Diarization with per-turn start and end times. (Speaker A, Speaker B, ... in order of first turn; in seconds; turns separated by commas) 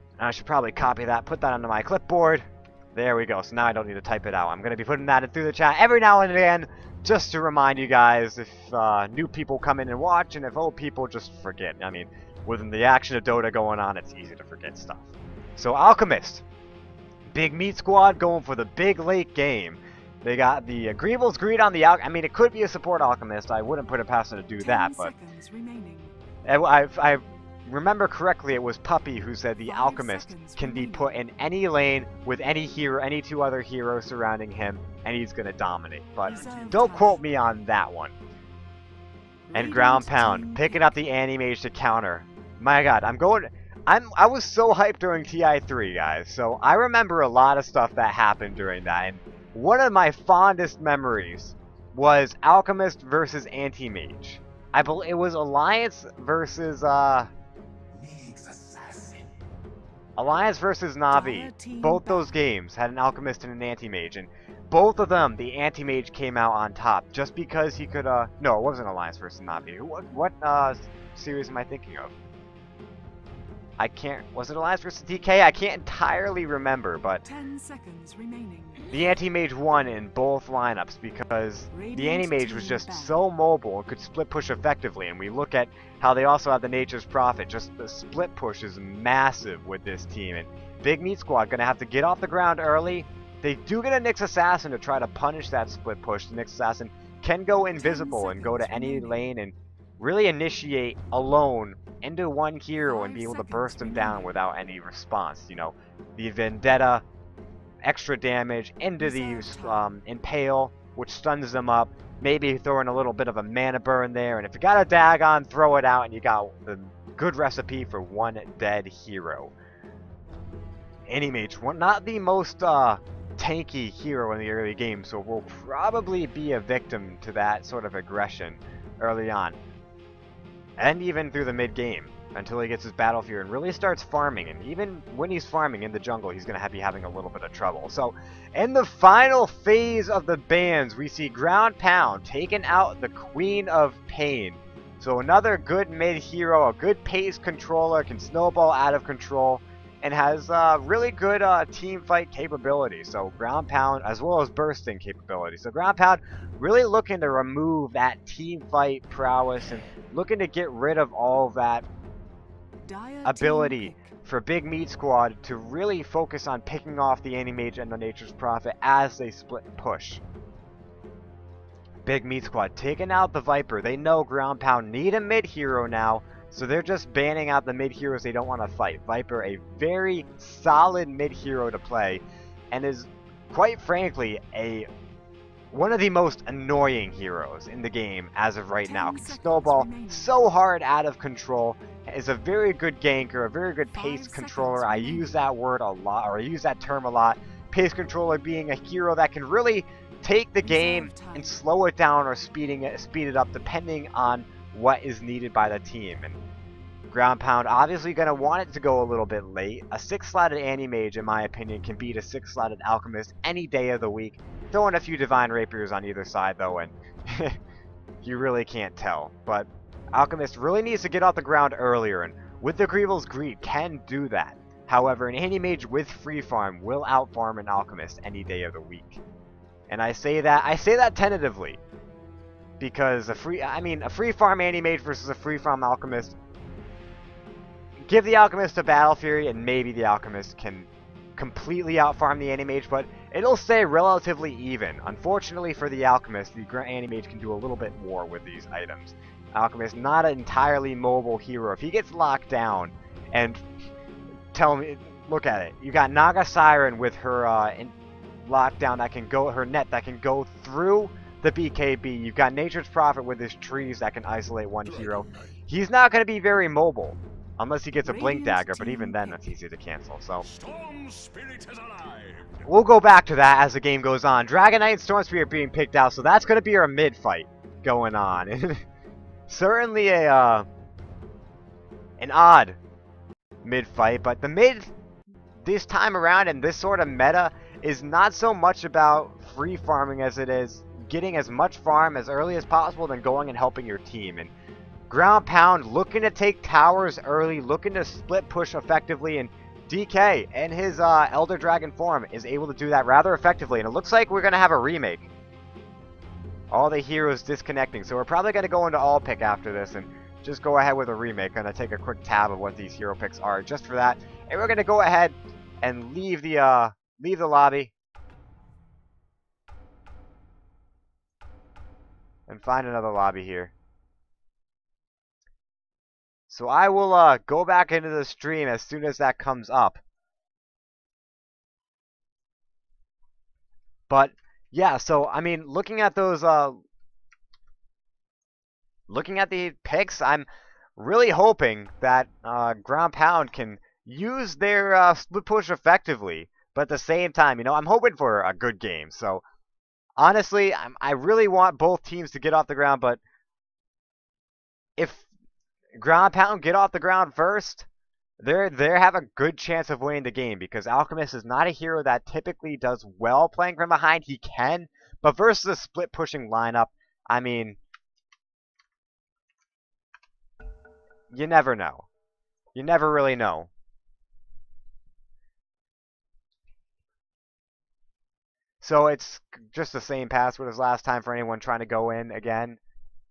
Speaker A: 0.2-16.4, Speaker A: 17.3-25.1, Speaker B: 24.6-26.1, Speaker A: 26.4-38.1, Speaker B: 29.6-31.2, Speaker B: 36.2-37.2, Speaker C: 36.3-36.7, Speaker B: 39.5-41.0, Speaker A: 39.5-57.3, Speaker C: 58.0-59.2, Speaker A: 60.2-72.1, Speaker B: 61.1-62.4, Speaker A: 73.8-77.2, Speaker B: 77.2-78.9, Speaker A: 78.9-107.0, Speaker B: 81.7-83.1, Speaker B: 97.7-99.3, Speaker B: 102.8-104.4, Speaker A: 107.8-119.5, Speaker B: 109.0-109.9, Speaker A: 121.1-129.6, Speaker A: 130.8-161.8, Speaker B: 162.8-164.1, Speaker A: 163.2-170.2, Speaker A: 172.0-184.9, Speaker A: 185.7-206.4, Speaker B: 188.8-190.4, Speaker B: 193.9-195.4, Speaker B: 200.6-201.6, Speaker A: 207.1-217.6, Speaker A: 218.2-229.2, Speaker A: 229.9-231.8, Speaker A: 232.8-236.3, Speaker A: 238.1-253.7, Speaker A: 254.5-257.9, Speaker A: 258.4-270.4, Speaker C: 264.9-265.5, Speaker B: 268.0-269.5, Speaker C: 270.5-272.6, Speaker A: 272.6-278.8, Speaker A: 279.5-280.6, Speaker A: 282.2-282.8, Speaker A: 283.6-284.9, Speaker A: 285.6-294.5, Speaker A: 295.1-305.3, Speaker A: 306.7-317.9, Speaker A: 322.5-323.7, Speaker A: 326.5-330.0, Speaker A: 334.1-336.8, Speaker A: 339.1-349.4, Speaker A: 350.2-353.2, Speaker A: 355.0-355.2, Speaker A: 355.9-357.9, Speaker A: 358.4-367.8, Speaker A: 371.3-372.1, Speaker A: 372.7-373.7, Speaker A: 378.8-382.8